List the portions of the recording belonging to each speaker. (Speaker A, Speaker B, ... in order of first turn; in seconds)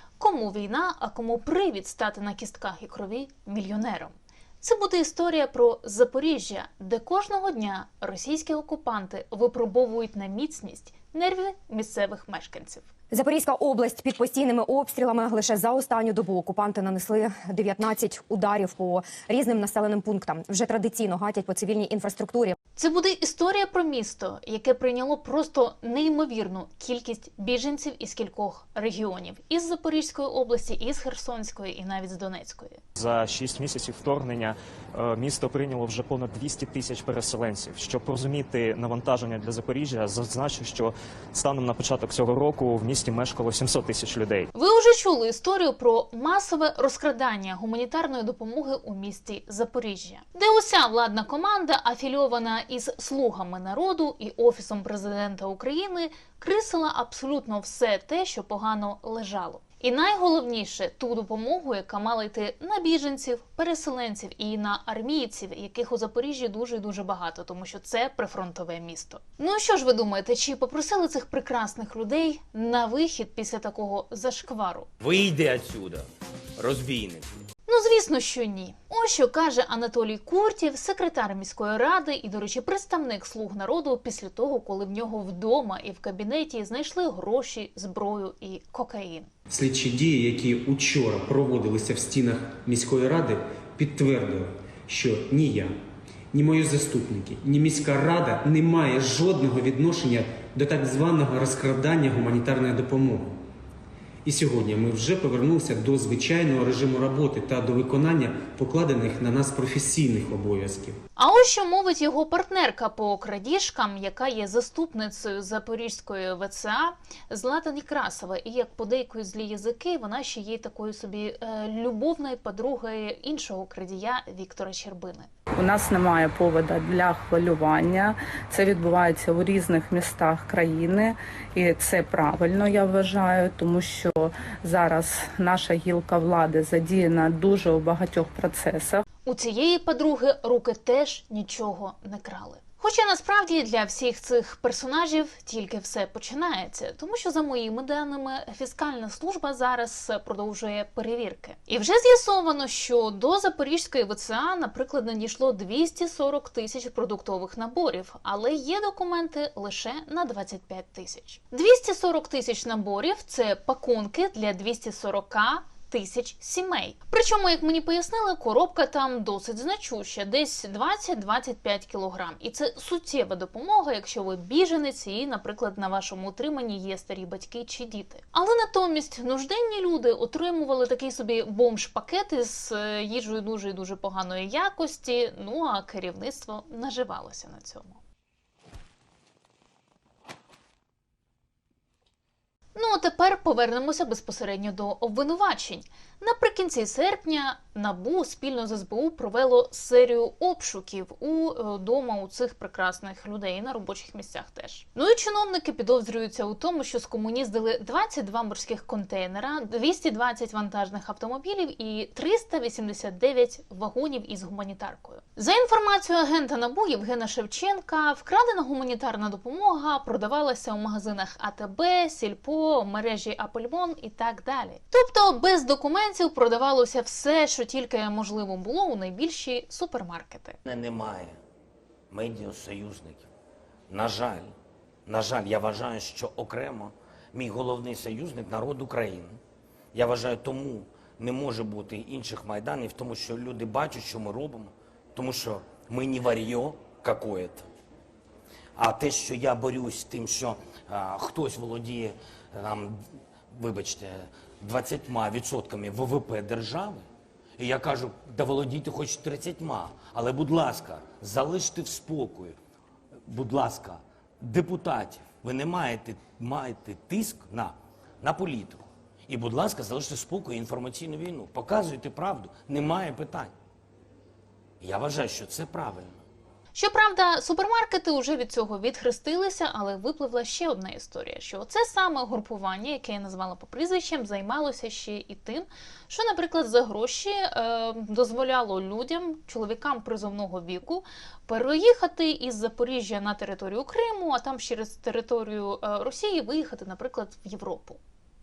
Speaker A: 0.2-12.9, 22.8-32.8, 44.5-74.9, 77.7-89.3, 111.2-125.3, 139.3-188.0, 192.8-230.6, 276.7-298.0
Speaker B: 13.1-22.6
Speaker C: 33.0-44.5
Speaker D: 75.0-76.0, 76.6-77.2, 230.7-231.4, 232.1-233.3, 233.9-234.5, 235.1-239.4, 239.9-247.7, 248.8-253.0, 253.5-257.1, 257.6-262.6, 263.3-273.5, 274.8-276.2
Speaker E: 89.5-95.7, 96.3-103.4, 104.2-111.0
Speaker F: 125.6-139.0